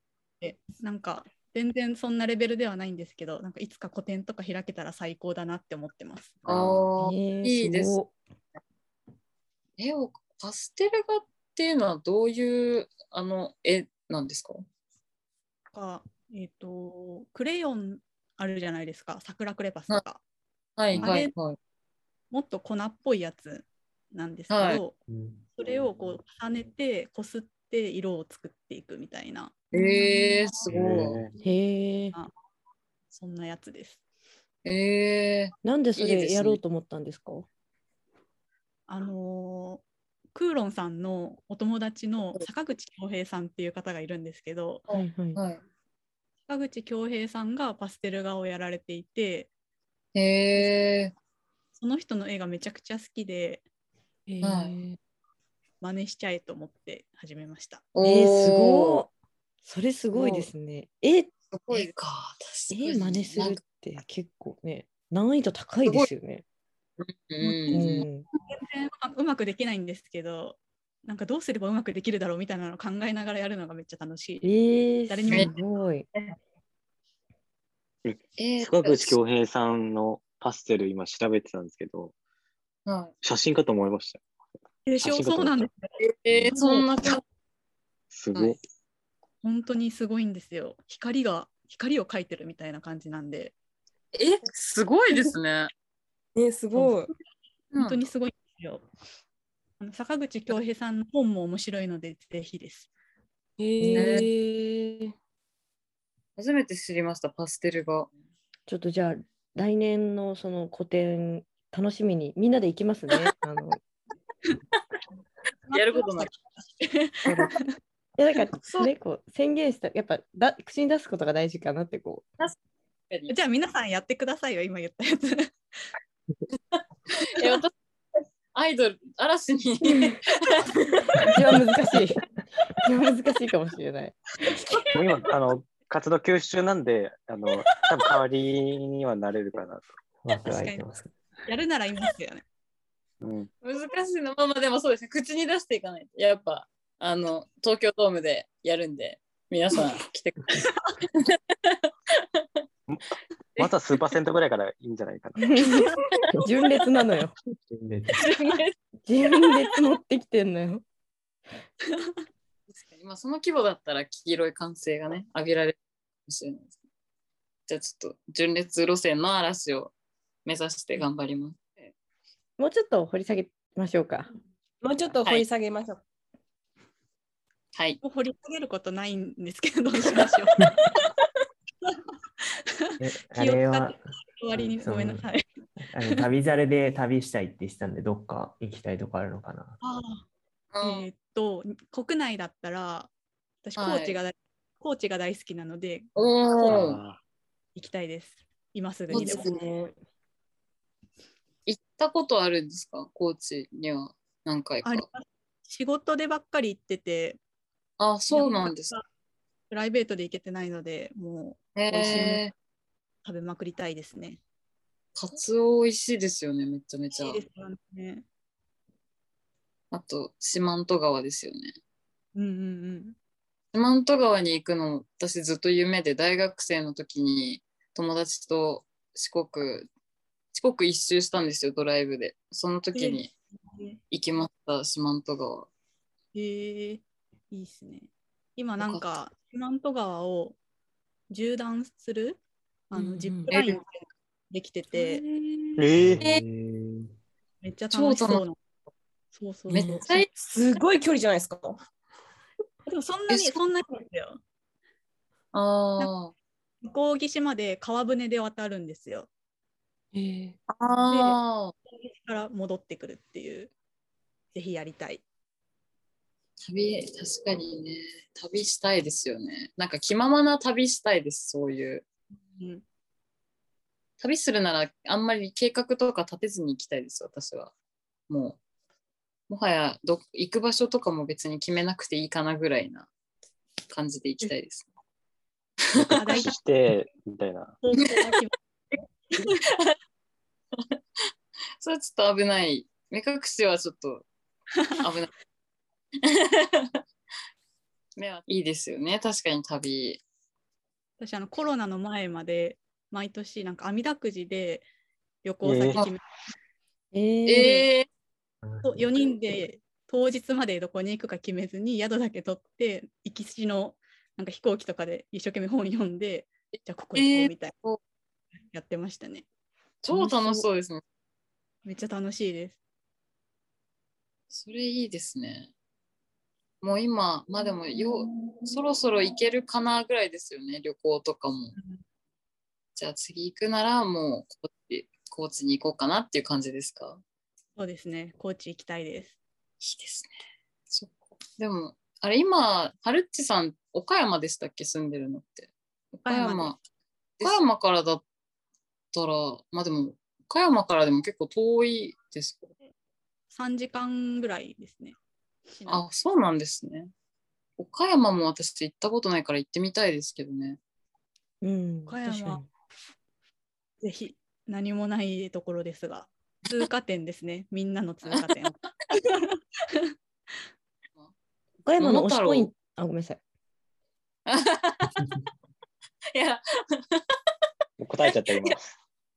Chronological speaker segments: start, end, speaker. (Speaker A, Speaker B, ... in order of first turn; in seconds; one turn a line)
Speaker A: 0.4-6.4
Speaker B: 6.5-6.9
Speaker C: 6.5-8.0
Speaker D: 7.0-8.2
Speaker C: 9.8-14.7
Speaker A: 15.7-20.2
Speaker C: 20.8-21.6
Speaker B: 20.9-21.2
Speaker A: 21.0-21.3
Speaker A: 22.3-25.0
Speaker C: 24.5-24.8
Speaker E: 25.1-25.6
Speaker A: 25.6-29.7
Speaker C: 29.7-31.2
Speaker F: 29.7-30.3
Speaker B: 30.7-31.3
Speaker D: 31.4-32.2
Speaker A: 33.1-34.0
Speaker C: 34.6-36.6
Speaker D: 35.6-37.5
Speaker A: 38.9-44.9
Speaker C: 44.9-45.6
Speaker D: 44.9-45.4
Speaker A: 46.5-49.5
Speaker C: 50.1-51.1
Speaker A: 51.8-53.6
Speaker F: 54.3-55.0
Speaker C: 54.4-54.8
Speaker A: 55.8-57.9
Speaker C: 58.0-59.0
Speaker D: 58.0-59.1
Speaker D: 59.6-61.3
Speaker C: 60.1-60.5
Speaker C: 61.5-63.6
Speaker D: 62.7-66.4
Speaker C: 65.8-66.1
Speaker C: 67.0-68.1
Speaker A: 67.4-75.6
Speaker D: 67.7-68.3
Speaker D: 74.4-76.1
Speaker C: 75.3-75.5
Speaker B: 78.0-82.1
Speaker C: 78.4-79.2
Speaker C: 82.9-83.1
Speaker B: 83.2-84.2
Speaker A: 84.9-85.9
Speaker B: 85.0-85.7
Speaker C: 86.0-87.2
Speaker A: 86.5-86.9
Speaker B: 88.1-88.6
Speaker A: 89.4-93.5
Speaker C: 94.2-95.7
Speaker F: 96.4-97.1
Speaker A: 96.7-97.1
Speaker C: 97.7-98.1
Speaker A: 97.8-98.8
Speaker A: 99.8-102.9
Speaker F: 103.6-105.1
Speaker D: 103.8-104.2
Speaker C: 103.9-104.3
Speaker C: 106.4-108.1
Speaker D: 108.7-113.8
Speaker A: 115.7-117.7
Speaker C: 115.7-116.4
Speaker D: 118.2-122.3
Speaker C: 118.6-118.9
Speaker A: 123.3-125.5
Speaker C: 126.7-127.7
Speaker C: 128.5-130.7
Speaker D: 129.9-130.2
Speaker D: 131.3-132.2
Speaker D: 132.8-134.2
Speaker B: 134.9-139.8
Speaker E: 140.2-141.1
Speaker A: 140.4-140.8
Speaker A: 141.5-142.4
Speaker B: 143.2-143.5
Speaker C: 143.6-152.4
Speaker C: 153.6-154.0
Speaker B: 153.6-155.6
Speaker D: 155.4-155.9
Speaker D: 156.4-157.3
Speaker E: 157.6-158.3
Speaker C: 158.2-158.7
Speaker D: 159.1-160.8
Speaker C: 162.8-166.8
Speaker C: 167.7-169.9
Speaker C: 170.4-171.9
Speaker D: 172.6-174.3
Speaker F: 174.8-176.0
Speaker C: 177.8-178.0
Speaker A: 178.0-180.7
Speaker A: 182.9-185.4
Speaker E: 183.0-184.0
Speaker E: 184.5-185.3
Speaker E: 185.8-189.8
Speaker A: 189.8-190.3
Speaker C: 190.7-191.1
Speaker A: 190.8-193.1
Speaker A: 193.6-196.1
Speaker C: 193.8-194.2
Speaker C: 196.2-197.0
Speaker B: 196.6-197.2
Speaker A: 197.8-199.5
Speaker C: 199.1-199.7
Speaker F: 199.1-199.9
Speaker C: 201.7-205.1
Speaker A: 204.8-207.4
Speaker C: 208.0-208.9
Speaker A: 208.3-209.0
Speaker A: 209.7-212.4
Speaker C: 211.8-212.5
Speaker A: 213.2-214.4
Speaker C: 215.2-217.4
Speaker A: 217.2-218.2
Speaker C: 219.9-221.8
Speaker A: 222.3-223.2
Speaker C: 223.7-229.9
Speaker C: 230.5-233.3
Speaker A: 232.9-234.0
Speaker C: 234.1-235.7
Speaker A: 236.3-240.6
Speaker C: 238.8-239.0
Speaker A: 241.3-242.4
Speaker A: 242.9-243.8
Speaker F: 242.9-243.5
Speaker C: 243.5-243.8
Speaker A: 244.5-245.2
Speaker F: 244.9-245.9
Speaker B: 245.8-246.3
Speaker E: 246.0-247.1
Speaker A: 247.6-248.6
Speaker C: 247.9-248.4
Speaker A: 249.3-250.2
Speaker C: 249.7-250.3
Speaker F: 249.7-251.8
Speaker A: 252.9-254.4
Speaker C: 255.5-256.3
Speaker A: 256.8-259.3
Speaker F: 260.1-260.6
Speaker C: 260.7-261.7
Speaker A: 261.1-261.4
Speaker A: 261.9-263.7
Speaker A: 264.5-265.2
Speaker C: 266.6-272.0
Speaker A: 272.5-272.8
Speaker C: 274.2-277.7
Speaker C: 278.3-278.6
Speaker C: 279.5-283.1
Speaker C: 283.9-284.9
Speaker C: 285.9-286.4
Speaker B: 285.9-287.8
Speaker A: 286.1-286.6
Speaker A: 287.8-288.5
Speaker C: 287.9-288.3
Speaker A: 289.4-289.6
Speaker C: 289.4-289.9
Speaker C: 291.8-294.3
Speaker C: 295.0-295.3
Speaker C: 296.2-297.0
Speaker C: 298.2-300.2
Speaker A: 301.2-304.9
Speaker A: 305.4-306.2
Speaker B: 305.6-306.0
Speaker D: 307.1-307.9
Speaker C: 307.5-308.1
Speaker E: 308.6-309.1
Speaker A: 308.8-317.7
Speaker C: 317.1-318.0
Speaker A: 318.7-319.5
Speaker C: 320.0-321.0
Speaker A: 320.1-320.6
Speaker D: 320.2-320.5
Speaker A: 321.9-322.8
Speaker C: 324.5-325.7
Speaker C: 326.8-331.8
Speaker C: 333.0-337.2
Speaker A: 337.8-339.4
Speaker C: 339.8-340.3
Speaker C: 340.9-346.8
Speaker A: 346.3-346.8
Speaker C: 347.4-348.2
Speaker C: 349.1-352.7
Speaker A: 353.5-355.2
Speaker A: 355.7-356.0
Speaker C: 355.9-357.1
Speaker C: 357.8-360.8
Speaker D: 361.6-362.7
Speaker A: 362.1-362.6
Speaker A: 364.0-370.1
Speaker D: 371.8-373.4
Speaker C: 372.0-372.8
Speaker C: 374.5-375.3
Speaker C: 376.3-377.2
Speaker B: 378.0-378.8
Speaker C: 378.2-378.7